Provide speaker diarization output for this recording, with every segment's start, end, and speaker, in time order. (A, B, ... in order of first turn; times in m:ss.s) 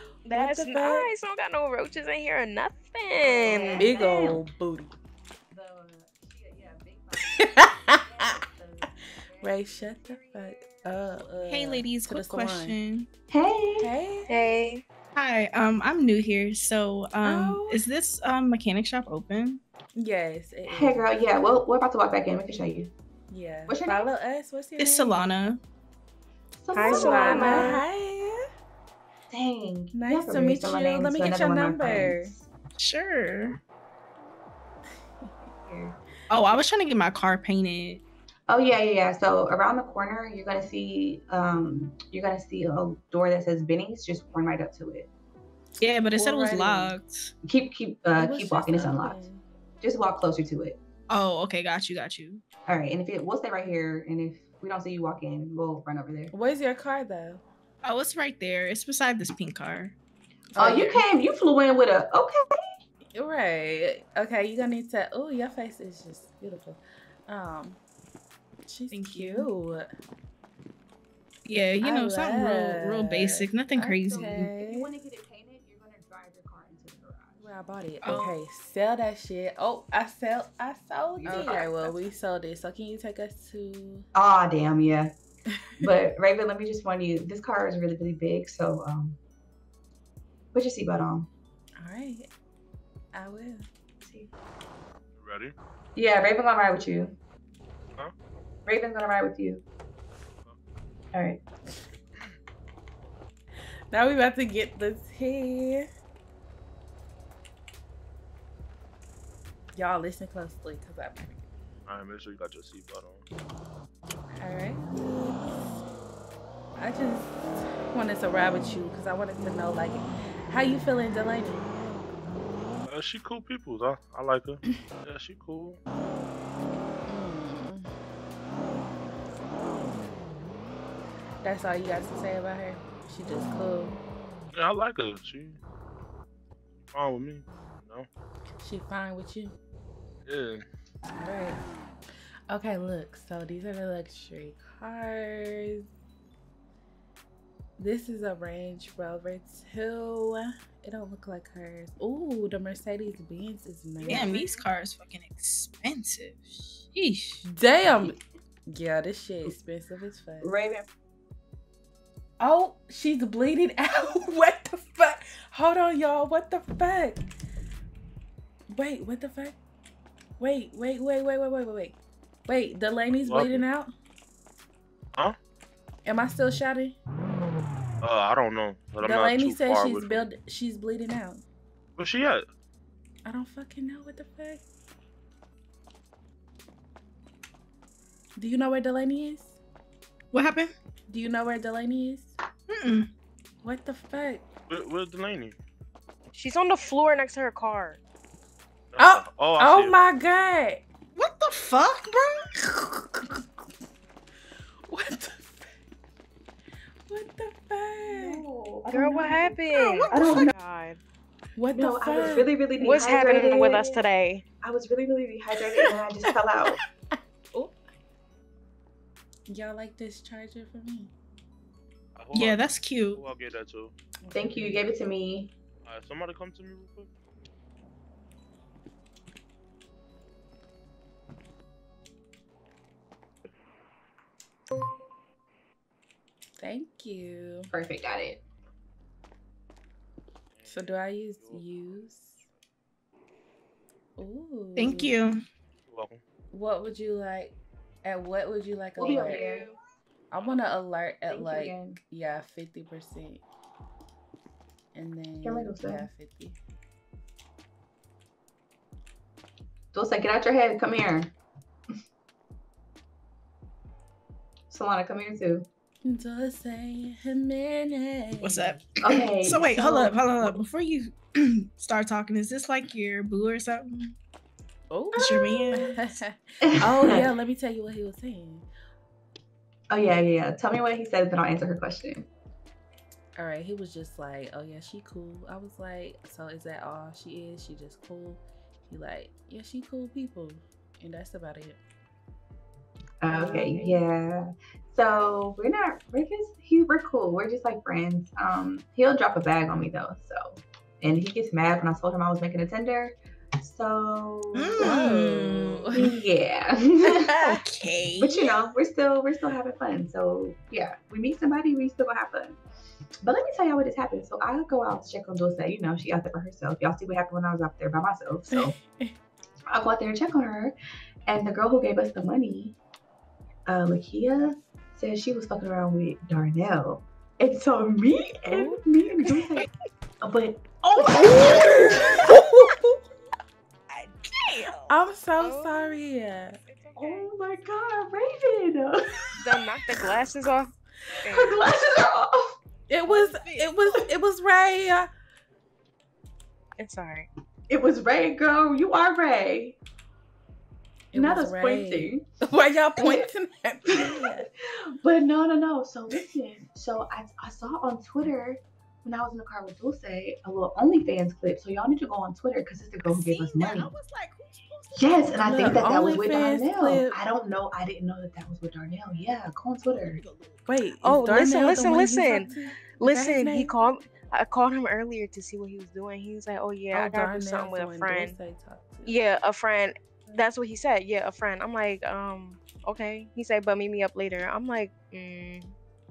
0:00.2-0:04.0 A
0:00.3-0:01.1 B
0:03.2-0:04.5 C
0:03.7-0:04.9 B
0:05.5-0:11.6 C
0:07.4-0:08.4 B
0:09.4-0:12.8 B
0:11.5-0:13.1 D
0:13.3-0:13.9 C
0:13.8-0:14.3 B
0:14.3-0:14.8 A
0:15.2-0:19.6 D
0:17.2-0:17.8 B
0:20.0-0:21.2 B
0:20.7-0:22.9 C
0:23.3-0:25.2 B
0:23.7-0:24.1 C
0:24.8-0:25.6 D
0:26.6-0:27.8 C
0:26.7-0:27.8 A
0:26.8-0:28.4 B
0:29.3-0:32.3 C
0:29.9-0:32.4 B
0:32.8-0:33.6 D
0:35.6-0:36.0 C
0:36.3-0:38.0 D
0:38.5-0:45.1 C
0:45.8-0:47.3 D
0:46.2-0:47.0 B
0:47.4-0:49.3 C
0:48.2-0:49.4 B
0:49.8-0:50.8 C
0:51.1-0:52.4 D
0:52.7-0:56.3 C
0:56.3-0:57.4 B
0:57.8-1:00.0 D
1:00.5-1:00.9 B
1:00.6-1:02.6 C
1:00.6-1:01.0 D
1:03.2-1:07.8 B
1:08.7-1:09.9 B
1:08.9-1:09.5 D
1:11.5-1:14.5 D
1:11.8-1:14.9 B
1:14.1-1:17.5 C
1:17.4-1:24.1 B
1:18.0-1:18.4 D
1:21.1-1:22.1 C
1:24.2-1:25.1 C
1:25.8-1:29.2 C
1:30.5-1:31.3 C
1:31.8-1:32.3 B
1:33.1-1:33.7 B
1:34.0-1:34.3 C
1:35.2-1:35.5 E
1:36.0-1:37.2 C
1:38.7-1:39.6 C
1:41.1-1:41.4 C
1:43.9-1:45.9 B
1:49.8-1:51.4 B
1:51.9-1:53.2 E
1:54.4-1:55.8 B
1:56.8-2:01.7 B
2:02.8-2:05.8 E
2:07.1-2:07.9 B
2:11.4-2:14.0 B
2:14.5-2:15.6 E
2:16.9-2:18.1 E
2:18.6-2:19.6 B
2:20.3-2:20.6 E
2:21.2-2:21.6 B
2:22.5-2:25.9 B
2:27.8-2:34.6 B
2:34.0-2:34.6 C
2:34.1-2:37.4 D
2:37.4-2:38.2 B
2:38.7-2:40.6 B
2:40.4-2:40.9 C
2:42.4-2:47.2 B
2:48.7-2:49.6 B
2:50.4-2:52.0 B
2:52.5-2:53.9 B
2:53.2-2:53.6 E
2:56.1-2:57.0 B
2:58.0-3:00.3 E
2:59.0-3:01.4 B
3:02.0-3:02.4 E
3:03.2-3:04.6 B
3:08.4-3:09.6 B
3:10.3-3:10.7 D
3:11.1-3:12.3 B
3:12.7-3:13.1 D
3:13.6-3:14.4 B
3:14.7-3:15.6 E
3:16.3-3:18.0 A
3:18.9-3:20.0 E
3:19.0-3:20.8 B
3:21.2-3:22.5 D
3:22.6-3:23.4 B
3:24.9-3:25.6 B
3:27.1-3:29.5 B
3:28.0-3:30.5 C
3:28.9-3:31.0 A
3:29.8-3:30.5 D
3:31.6-3:33.6 B
3:31.7-3:34.0 C
3:32.8-3:34.4 A
3:34.6-3:36.8 C
3:39.5-3:41.1 B
3:42.2-3:43.9 E
3:42.3-3:43.2 D
3:44.2-3:44.9 B
3:44.3-3:45.5 C
3:45.8-3:47.1 E
3:56.6-3:57.7 B
3:57.7-3:58.4 C
4:00.6-4:02.0 E
4:00.7-4:02.4 B
4:04.2-4:05.2 B
4:04.8-4:05.4 D
4:05.9-4:06.2 E
4:06.5-4:09.5 B
4:09.0-4:09.7 C
4:09.0-4:09.8 D
4:10.3-4:13.4 B
4:11.3-4:12.0 C
4:15.0-4:16.6 B
4:15.4-4:16.1 C
4:19.9-4:21.3 C
4:24.7-4:25.7 C
4:26.0-4:28.9 B
4:28.4-4:34.2 D
4:29.0-4:30.2 C
4:34.9-4:38.7 B
4:35.1-4:36.2 D
4:36.6-4:37.3 C
4:39.9-4:42.3 C
4:43.4-4:51.8 B
4:53.2-5:05.0 C
4:53.3-4:54.0 B
5:04.6-5:06.2 D
5:04.8-5:06.0 B
5:05.9-5:07.6 C
5:07.0-5:08.8 D
5:08.2-5:12.6 C
5:13.2-5:18.8 C
5:18.5-5:19.2 B
5:19.7-5:20.8 C
5:21.3-5:22.8 C
5:23.7-5:29.7 C
5:28.5-5:29.3 B
5:30.2-5:32.2 C
5:31.1-5:32.4 D
5:32.2-5:33.0 B
5:33.9-5:34.9 D
5:34.9-5:36.6 B
5:35.4-5:36.0 A
5:36.6-5:37.3 A
5:37.0-5:39.7 C
5:39.4-5:41.6 A
5:41.2-5:42.6 C
5:42.9-5:45.1 B
5:43.1-5:44.0 D
5:46.8-5:47.3 A
5:47.7-5:49.8 C
5:51.1-5:54.5 B
5:51.1-5:52.3 C
5:53.0-5:53.3 C
5:53.9-6:04.0 C
6:03.0-6:06.3 D
6:05.0-6:10.2 C
6:05.4-6:07.2 B
6:09.9-6:12.8 D
6:10.7-6:13.8 B
6:11.1-6:12.5 A
6:13.0-6:18.4 A
6:16.9-6:19.2 B
6:19.0-6:25.7 A